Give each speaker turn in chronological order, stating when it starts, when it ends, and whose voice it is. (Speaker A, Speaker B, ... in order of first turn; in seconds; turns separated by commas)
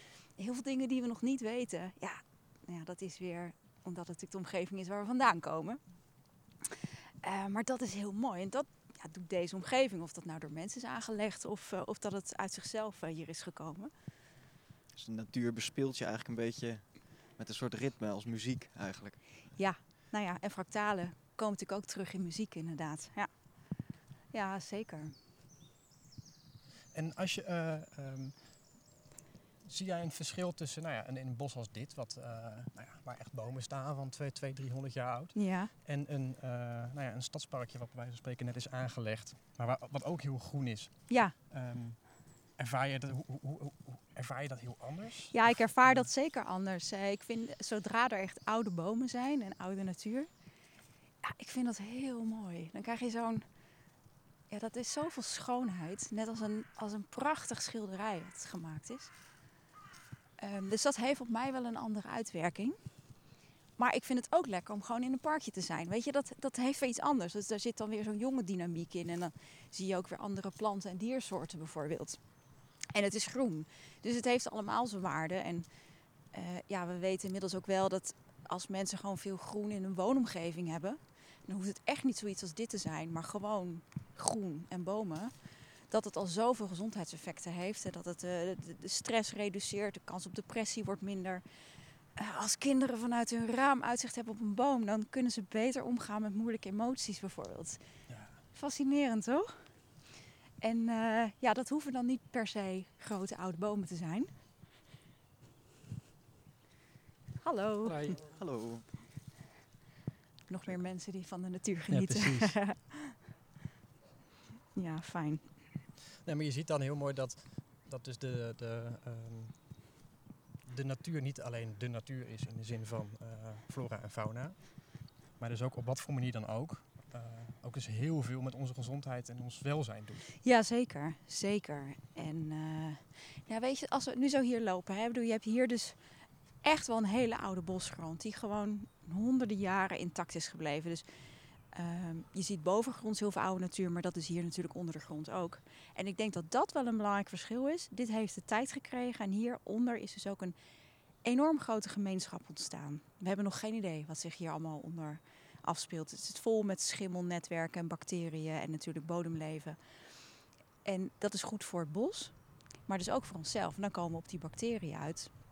Speaker A: 0.4-5.9, Speaker A: 7.2-13.9, Speaker B: 14.9-19.5, Speaker A: 19.6-23.5, Speaker A: 24.3-25.1, Speaker C: 26.9-28.6, Speaker C: 29.6-46.1, Speaker A: 35.3-35.7, Speaker A: 41.1-41.3, Speaker A: 45.3-50.3, Speaker A: 51.2-53.4, Speaker A: 54.5-59.1, Speaker A: 60.4-62.8, Speaker A: 63.8-72.2, Speaker A: 72.9-75.7, Speaker A: 76.3-91.4, Speaker A: 92.2-97.8, Speaker C: 98.1-98.4, Speaker A: 98.5-99.6, Speaker A: 100.6-104.3, Speaker A: 107.4-108.2, Speaker C: 107.8-108.2, Speaker B: 108.2-108.9, Speaker A: 110.5-113.2, Speaker C: 111.9-112.6, Speaker A: 114.7-115.5, Speaker C: 116.2-119.8, Speaker C: 120.7-130.3, Speaker A: 130.4-136.0, Speaker A: 136.6-141.0, Speaker A: 141.7-150.5, Speaker A: 151.2-159.8, Speaker A: 160.8-162.3, Speaker A: 162.8-165.3